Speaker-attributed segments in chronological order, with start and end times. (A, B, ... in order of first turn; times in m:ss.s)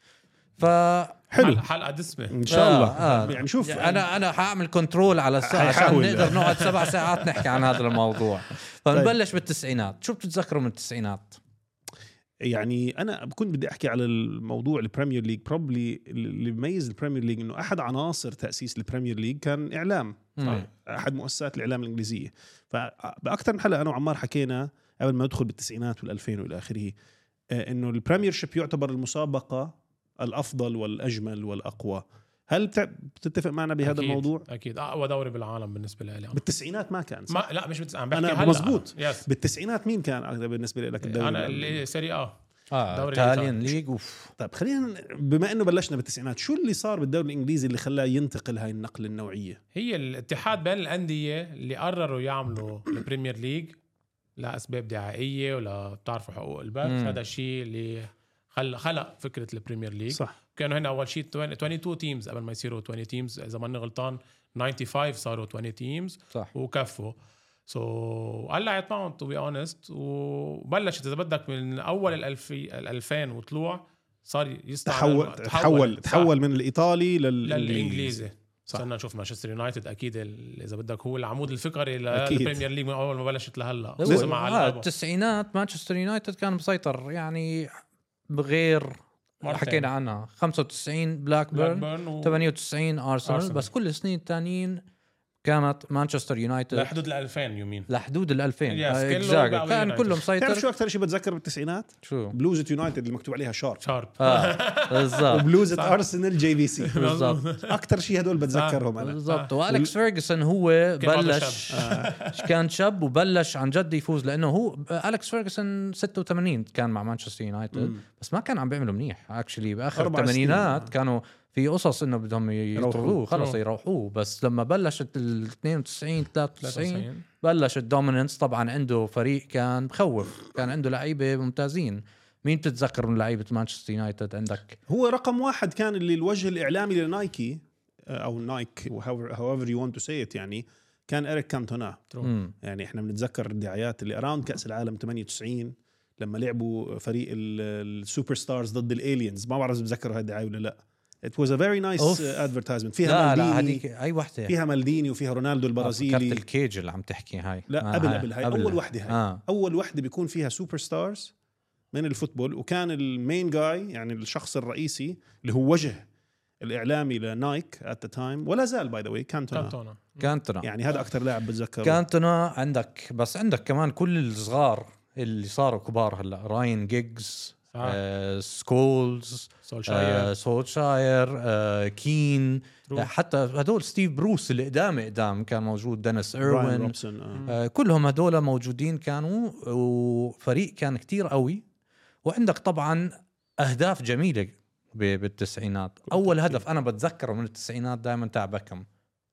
0:00.6-0:01.2 A
0:01.3-0:01.6 B
0:01.4-0:03.3 C
0:02.3-0:04.1 B
0:02.5-0:11.4 A
0:05.4-0:06.6 B
0:06.1-0:07.6 C
0:12.4-0:26.9 B
0:20.4-0:20.6 A
0:27.5-0:34.4 B
0:33.8-0:36.4 C
0:36.3-0:37.4 B
0:37.3-0:39.3 C
0:38.1-0:41.8 B
0:41.0-0:42.4 C
0:42.7-0:44.3 A
0:42.9-0:43.8 C
0:44.4-0:49.6 B
0:49.7-0:53.8 C
0:54.4-1:07.2 C
0:56.8-0:57.2 A
1:07.7-1:16.3 C
1:14.8-1:18.8 B
1:17.4-1:24.9 C
1:22.1-1:22.6 B
1:24.0-1:34.8 A
1:24.0-1:24.3 B
1:29.4-1:29.9 C
1:31.5-1:32.4 C
1:33.2-1:33.6 C
1:35.4-1:36.9 A
1:36.7-1:37.9 C
1:37.9-1:40.6 A
1:38.7-1:40.2 C
1:40.4-1:43.8 B
1:42.0-1:42.3 A
1:43.8-1:46.0 C
1:44.2-1:45.5 A
1:45.3-1:47.0 B
1:46.8-1:47.7 C
1:47.0-1:47.4 A
1:47.6-1:49.9 B
1:48.5-1:49.5 C
1:49.0-2:14.8 A
1:51.0-1:52.4 C
1:51.7-1:52.1 B
1:57.7-1:58.0 B
2:00.0-2:00.9 B
2:02.8-2:03.2 B
2:03.3-2:03.6 C
2:06.6-2:07.2 C
2:14.9-2:22.1 B
2:22.2-2:22.5 A
2:22.6-2:33.8 B
2:32.0-2:32.5 A
2:33.0-2:34.5 A
2:34.5-2:36.4 B
2:35.8-2:39.4 A
2:37.7-2:41.3 B
2:41.9-2:46.0 B
2:46.6-2:49.8 B
2:49.5-2:50.3 C
2:50.2-2:50.7 A
2:50.6-2:52.0 B
2:51.8-3:06.9 A
2:57.7-2:58.0 C
2:59.6-3:00.3 C
3:06.4-3:07.4 B
3:07.5-3:11.6 A
3:12.2-3:18.8 A
3:16.1-3:16.6 B